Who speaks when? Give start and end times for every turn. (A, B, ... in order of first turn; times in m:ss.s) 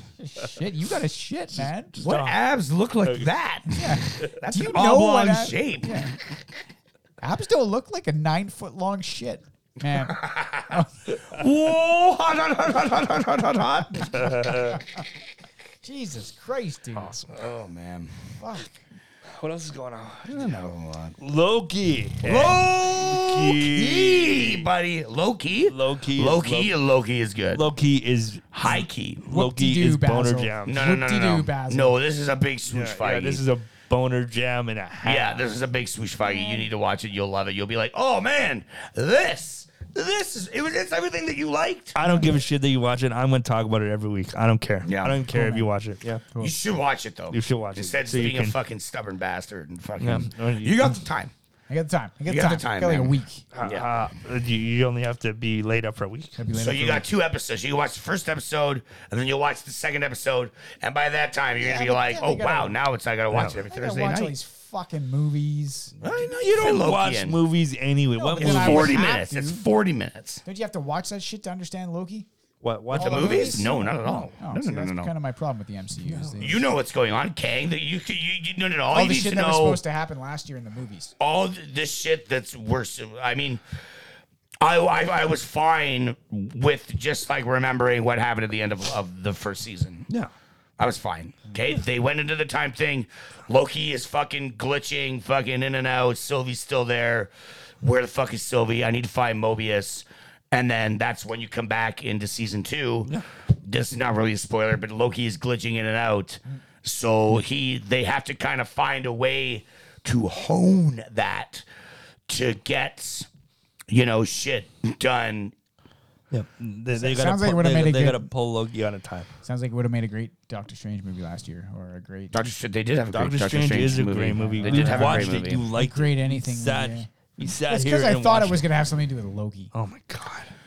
0:00.2-0:02.0 A
0:01.9-0:02.4 B
0:02.0-0:06.2 C
0:03.0-0:03.3 B
0:03.7-0:06.1 A
0:07.2-0:10.9 A
0:09.9-0:14.7 C
0:14.1-0:14.8 B
0:14.4-0:14.8 A
0:15.8-0:17.2 A
0:17.0-0:17.4 B
0:17.3-0:18.1 C
0:18.4-0:18.7 A
0:19.3-0:20.6 B
0:20.3-0:21.2 C
0:21.2-0:24.7 B
0:22.2-0:27.7 C
0:25.7-0:26.7 B
0:27.5-0:30.9 B
0:28.5-0:29.2 C
0:29.3-0:32.0 A
0:30.7-0:33.4 C
0:32.7-0:35.5 B
0:35.0-0:42.0 C
0:36.2-0:36.7 A
0:42.0-0:46.2 B
0:44.8-0:45.2 C
0:45.3-0:45.7 A
0:46.4-0:51.3 C
0:47.3-0:48.6 B
0:50.0-0:51.0 B
0:51.7-0:53.4 A
0:52.3-0:53.9 C
0:53.5-0:56.5 B
0:56.4-0:57.1 A
0:56.5-1:04.4 C
1:01.6-1:02.8 A
1:03.3-1:03.6 B
1:03.5-1:06.2 A
1:06.0-1:07.4 C
1:06.3-1:09.0 B
1:08.2-1:09.6 A
1:08.4-1:10.4 C
1:10.4-1:12.3 A
1:12.6-1:13.7 B
1:12.9-1:15.1 C
1:12.9-1:16.6 A
1:16.1-1:16.6 B
1:16.4-1:19.8 C
1:18.9-1:21.1 A
1:21.2-1:23.6 C
1:24.6-1:30.1 C
1:30.8-1:37.3 C
1:37.8-1:43.1 C
1:43.6-1:51.6 C
1:52.3-1:53.3 C
1:53.9-1:55.5 C
1:56.3-1:59.3 B
1:56.9-1:58.3 A
1:59.4-2:02.4 A
2:02.3-2:05.7 C
2:03.1-2:08.7 B
2:04.4-2:07.1 A
2:07.7-2:09.7 A
2:09.7-2:10.5 B